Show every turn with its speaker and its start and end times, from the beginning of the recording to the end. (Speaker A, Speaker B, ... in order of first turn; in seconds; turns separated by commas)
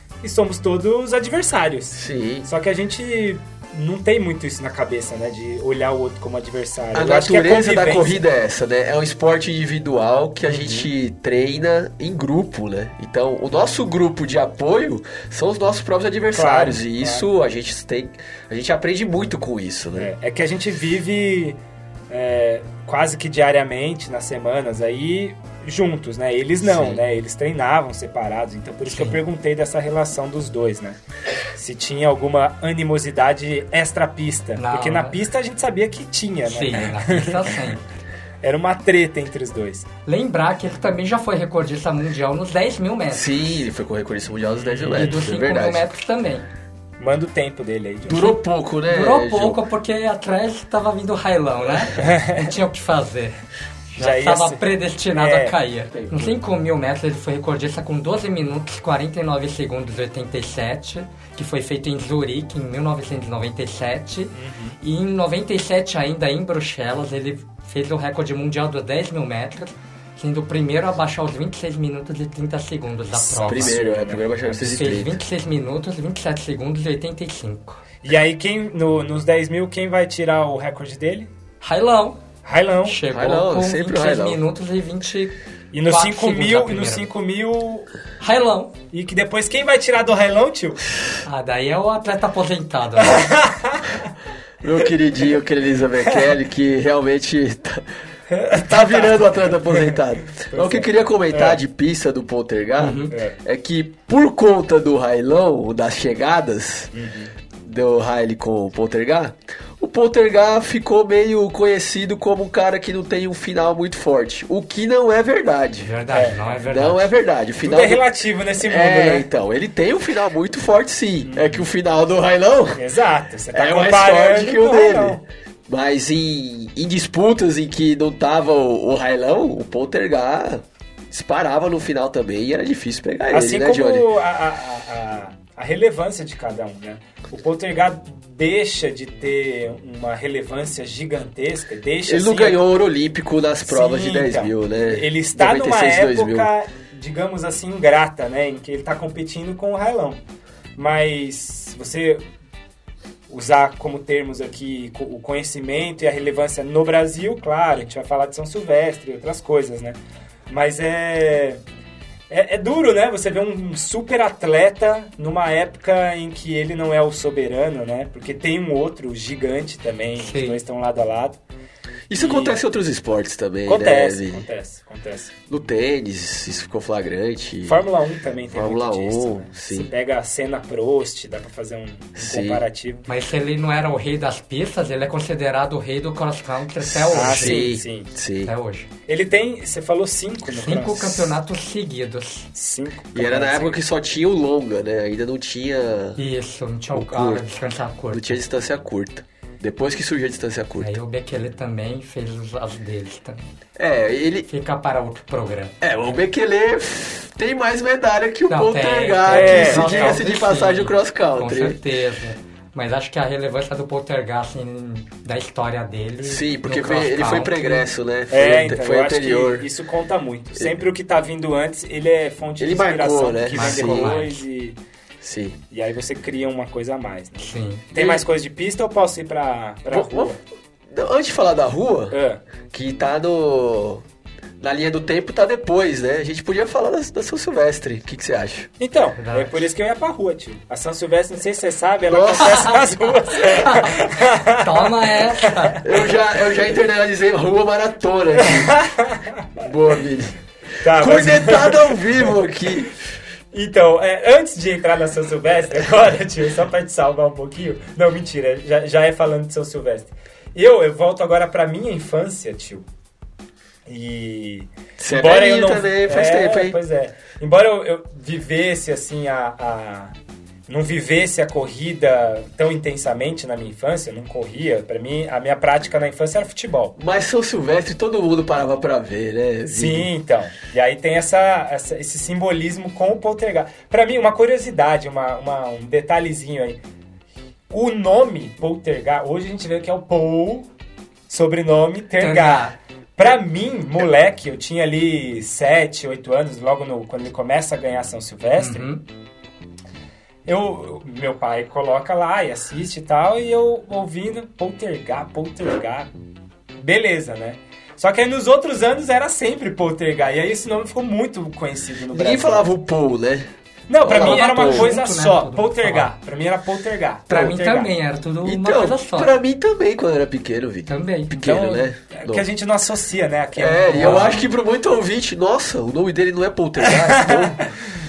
Speaker A: 0.2-8.2, Speaker B: 1.9-2.5, Speaker B: 6.9-20.1, Speaker A: 16.3-17.3, Speaker A: 19.9-21.6, Speaker A: 22.1-31.0, Speaker B: 26.6-27.0, Speaker C: 28.9-29.2, Speaker A: 31.5-37.7, Speaker C: 34.5-35.2, Speaker C: 36.5-37.9, Speaker A: 38.4-39.9, Speaker C: 40.0-43.3, Speaker B: 43.1-45.9, Speaker A: 44.6-45.2, Speaker C: 44.9-46.5, Speaker A: 47.0-48.3, Speaker B: 48.0-49.6, Speaker C: 48.9-53.4, Speaker A: 52.0-52.5, Speaker C: 53.9-73.8, Speaker A: 54.0-54.6, Speaker A: 55.1-55.5, Speaker B: 55.9-56.4, Speaker A: 64.3-64.8, Speaker A: 73.1-74.9, Speaker B: 73.4-75.2, Speaker C: 74.6-77.8, Speaker A: 78.0-81.3, Speaker C: 81.6-82.2, Speaker A: 82.4-83.0, Speaker C: 82.8-87.1, Speaker B: 83.1-84.4, Speaker A: 85.7-87.9, Speaker C: 88.2-88.8, Speaker A: 88.9-90.8, Speaker C: 91.2-93.3, Speaker A: 93.0-94.1, Speaker B: 94.6-97.8, Speaker A: 98.3-101.6, Speaker B: 98.5-106.9, Speaker C: 102.8-103.1, Speaker A: 103.1-103.4, Speaker A: 106.9-107.3, Speaker B: 107.6-115.9, Speaker C: 115.8-117.1, Speaker A: 116.1-116.4, Speaker B: 116.6-118.0, Speaker A: 117.6-119.3, Speaker B: 118.6-122.8, Speaker A: 121.2-121.6, Speaker A: 122.7-125.2, Speaker B: 123.5-134.1, Speaker A: 133.3-142.6, Speaker B: 142.1-146.5, Speaker A: 143.6-150.2, Speaker A: 150.8-152.2, Speaker A: 153.3-160.0, Speaker A: 160.5-161.6, Speaker A: 162.3-171.4, Speaker C: 170.2-170.6, Speaker B: 172.1-174.5, Speaker A: 172.1-172.6, Speaker A: 173.7-175.4, Speaker B: 175.5-177.8, Speaker A: 177.6-183.1, Speaker B: 178.5-179.9, Speaker B: 182.2-182.6, Speaker C: 183.1-187.7, Speaker B: 186.8-188.5, Speaker A: 187.1-188.1, Speaker C: 188.4-188.9, Speaker A: 189.1-191.4, Speaker C: 190.6-192.5, Speaker A: 192.5-193.8, Speaker B: 193.1-196.2, Speaker C: 196.2-198.4, Speaker B: 196.9-197.4, Speaker B: 198.1-200.9, Speaker C: 200.8-203.5, Speaker B: 203.8-204.5, Speaker C: 204.5-205.8, Speaker B: 205.8-211.8, Speaker C: 208.5-217.8, Speaker A: 209.3-210.2, Speaker B: 216.2-219.7, Speaker A: 218.3-224.8, Speaker B: 222.6-224.2, Speaker C: 223.5-224.4, Speaker B: 225.2-225.6, Speaker A: 225.7-230.4, Speaker C: 227.4-227.9, Speaker B: 227.9-228.2, Speaker B: 229.9-230.3, Speaker B: 230.9-232.2, Speaker A: 232.1-232.4, Speaker B: 232.7-234.0, Speaker B: 234.6-238.7, Speaker A: 238.8-245.8, Speaker C: 239.2-239.5, Speaker B: 242.1-242.6, Speaker C: 242.4-246.1, Speaker B: 245.8-248.7, Speaker A: 248.4-249.3, Speaker B: 249.6-252.9, Speaker A: 250.8-252.3, Speaker A: 253.5-262.8, Speaker A: 263.9-270.1, Speaker B: 265.0-266.8, Speaker A: 270.7-276.9, Speaker B: 277.0-280.1, Speaker A: 279.7-286.8, Speaker A: 287.7-290.7, Speaker A: 291.3-298.9, Speaker C: 292.2-292.7, Speaker C: 298.6-299.0, Speaker A: 300.4-306.1, Speaker A: 306.8-312.7, Speaker B: 312.1-313.5, Speaker A: 313.9-317.9, Speaker B: 314.0-314.9, Speaker C: 314.1-316.1, Speaker C: 317.3-319.4, Speaker B: 318.4-322.4, Speaker C: 320.9-321.4, Speaker A: 321.4-324.4, Speaker B: 323.5-327.6, Speaker C: 324.0-324.5, Speaker A: 326.8-327.7